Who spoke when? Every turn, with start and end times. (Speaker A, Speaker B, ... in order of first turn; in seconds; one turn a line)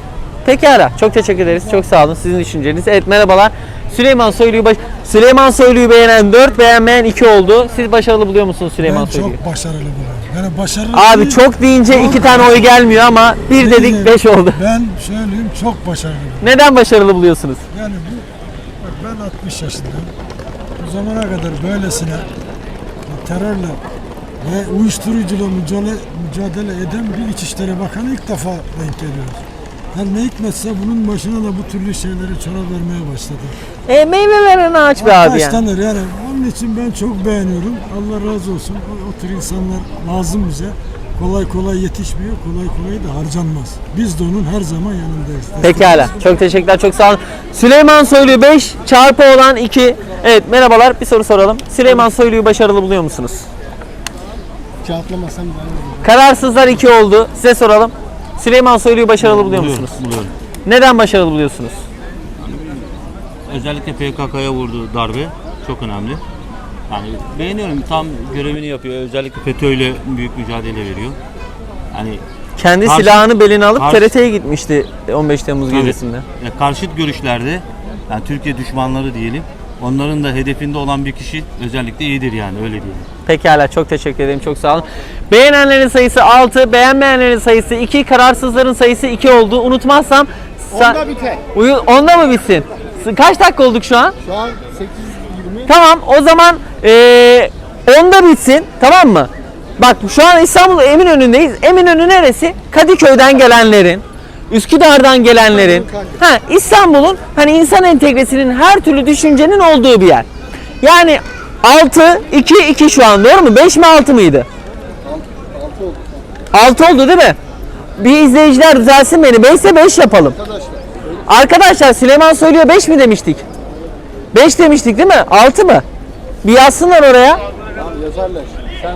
Speaker A: 0.5-9.4
Speaker B: 8.8-12.7
Speaker A: 10.9-14.6
Speaker B: 13.5-16.6
Speaker A: 16.4-17.6
Speaker B: 17.7-18.3
Speaker B: 18.8-20.1
Speaker B: 20.8-22.3
Speaker B: 23.1-23.8
Speaker B: 24.4-29.4
Speaker B: 29.9-33.6
Speaker A: 33.9-35.6
Speaker B: 35.0-46.3
Speaker A: 45.6-53.5
Speaker C: 54.9-55.8
Speaker A: 56.0-60.0
Speaker D: 59.2-60.3
Speaker A: 60.7-61.8
Speaker D: 62.4-66.2
Speaker D: 66.9-71.2
Speaker D: 71.9-72.2
Speaker A: 72.6-76.2
Speaker D: 72.8-74.1
Speaker D: 75.7-83.1
Speaker A: 83.3-91.0
Speaker C: 91.1-91.3
Speaker A: 91.5-94.2
Speaker C: 94.2-95.7
Speaker A: 95.7-110.3
Speaker A: 110.8-114.5
Speaker C: 115.1-116.0
Speaker A: 116.5-117.4
Speaker A: 118.0-120.4
Speaker C: 120.5-120.8
Speaker A: 121.3-123.4
Speaker A: 124.3-125.8
Speaker A: 126.4-127.4
Speaker C: 127.8-128.8